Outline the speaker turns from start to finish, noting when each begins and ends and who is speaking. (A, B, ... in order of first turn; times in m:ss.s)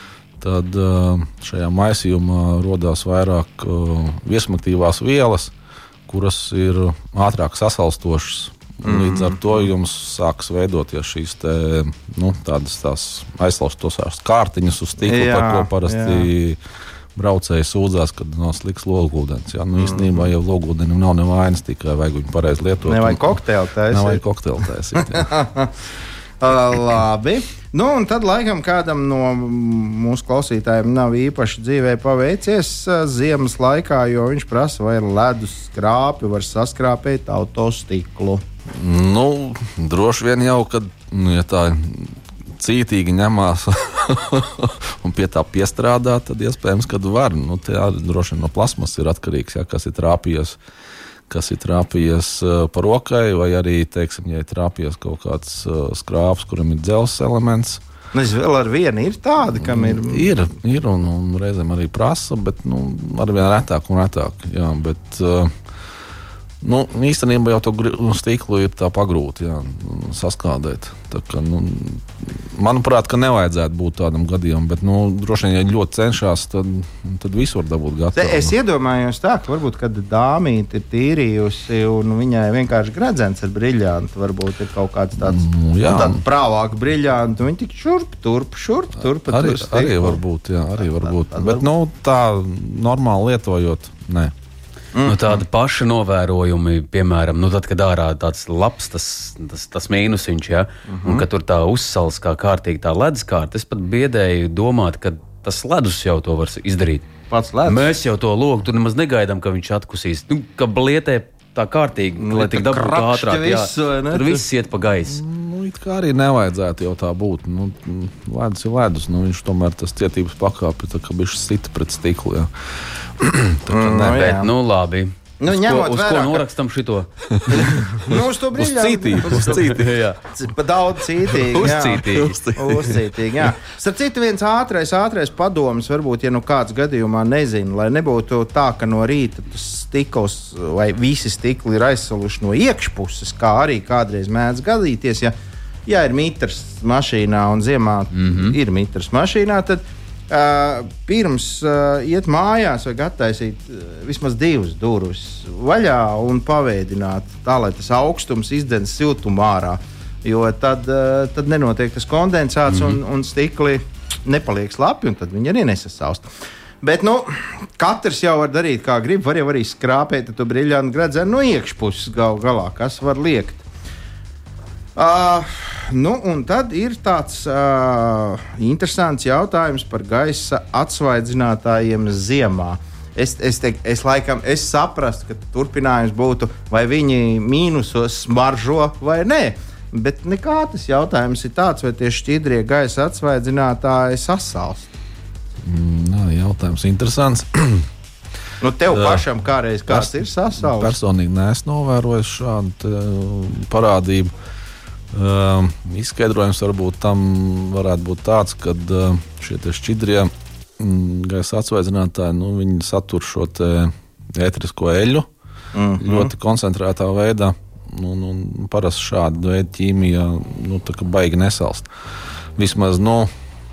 0:00.4-0:05.5 A
0:06.1-0:16.6 A
0:08.8-0:09.6 B
0:15.0-0:16.3 B
0:17.2-0:25.4 A
0:19.8-0:20.2 B
0:22.8-0:25.7 B
0:26.4-0:38.4 B
0:38.7-0:50.6 A
0:51.3-0:57.8 A
0:58.1-1:00.3 B
0:59.4-1:05.6 A
1:06.6-1:18.6 A
1:18.2-1:30.2 B
1:25.2-1:26.2 A
1:29.2-1:34.3 A
1:30.9-1:31.6 B
1:34.9-1:35.4 B
1:35.0-1:47.1 C
1:40.9-1:41.2 B
1:47.3-1:47.9 B
1:47.7-1:55.2 C
1:52.2-1:54.4 B
1:55.1-2:04.3 A
2:03.7-2:04.5 B
2:04.0-2:07.1 C
2:05.4-2:06.4 B
2:07.3-2:10.0 A
2:07.5-2:25.3 B
2:09.5-2:10.2 C
2:11.3-2:12.4 C
2:11.9-2:13.1 A
2:25.9-2:46.3 B
2:28.1-2:28.6 C
2:46.8-2:53.6 B
2:55.0-3:14.9 B
3:15.6-3:17.9 A
3:18.6-3:21.0 B
3:18.9-3:19.3 A
3:19.9-3:24.3 A
3:25.1-3:35.3 A
3:35.7-3:36.3 B
3:36.0-3:41.9 A
3:42.6-3:43.3 A